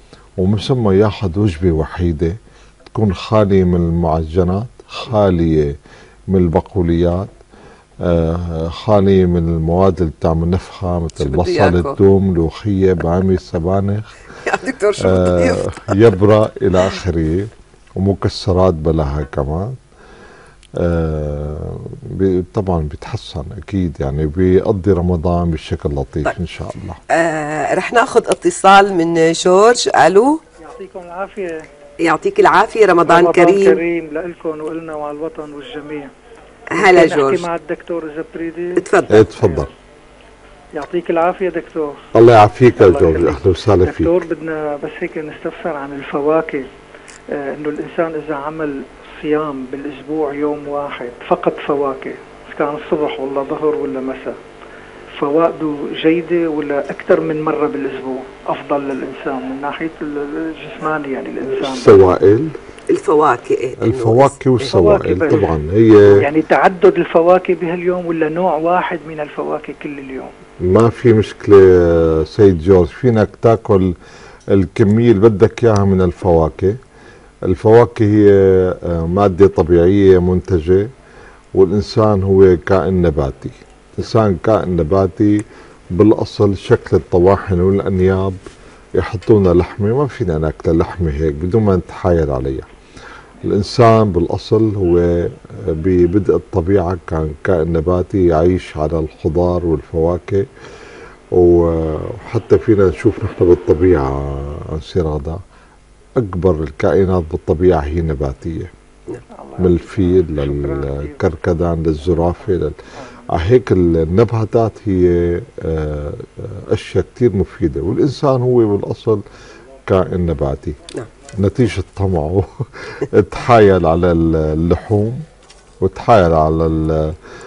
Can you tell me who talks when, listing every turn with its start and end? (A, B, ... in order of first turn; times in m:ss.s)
0:00.4-0:02.4 A
0:02.9-0:05.8 A
0:06.3-0:07.3 A
0:08.0-0:14.1 A
0:11.2-0:12.0 B
0:14.4-0:16.0 B
0:15.0-0:19.8 A
0:20.8-0:27.0 A
0:27.1-0:30.4 B
0:30.6-0:31.6 C
0:32.0-0:33.8 B
0:33.1-0:36.1 C
0:36.7-0:37.4 B
0:36.7-0:38.8 C
0:38.8-0:39.2 B
0:39.1-0:39.7 A
0:39.4-0:39.7 C
0:40.7-0:42.0 C
0:42.1-0:44.2 A
0:42.8-0:46.7 C
0:47.3-0:54.4 C
0:55.2-1:02.1 C
1:01.6-1:02.6 A
1:02.9-1:04.3 B
1:03.8-1:06.2 A
1:04.6-1:05.5 C
1:06.1-1:10.3 C
1:10.6-1:13.9 A
1:14.5-1:16.8 A
1:17.5-1:20.9 A
1:21.5-1:28.4 A
1:29.0-1:32.7 A
1:33.4-1:40.5 A
1:41.3-1:45.4 A
1:46.2-1:48.7 A
1:49.3-1:51.2 C
1:49.6-1:52.8 A
1:53.3-1:59.2 A
1:59.8-2:00.8 A
2:01.4-2:05.2 A
2:05.8-2:07.2 A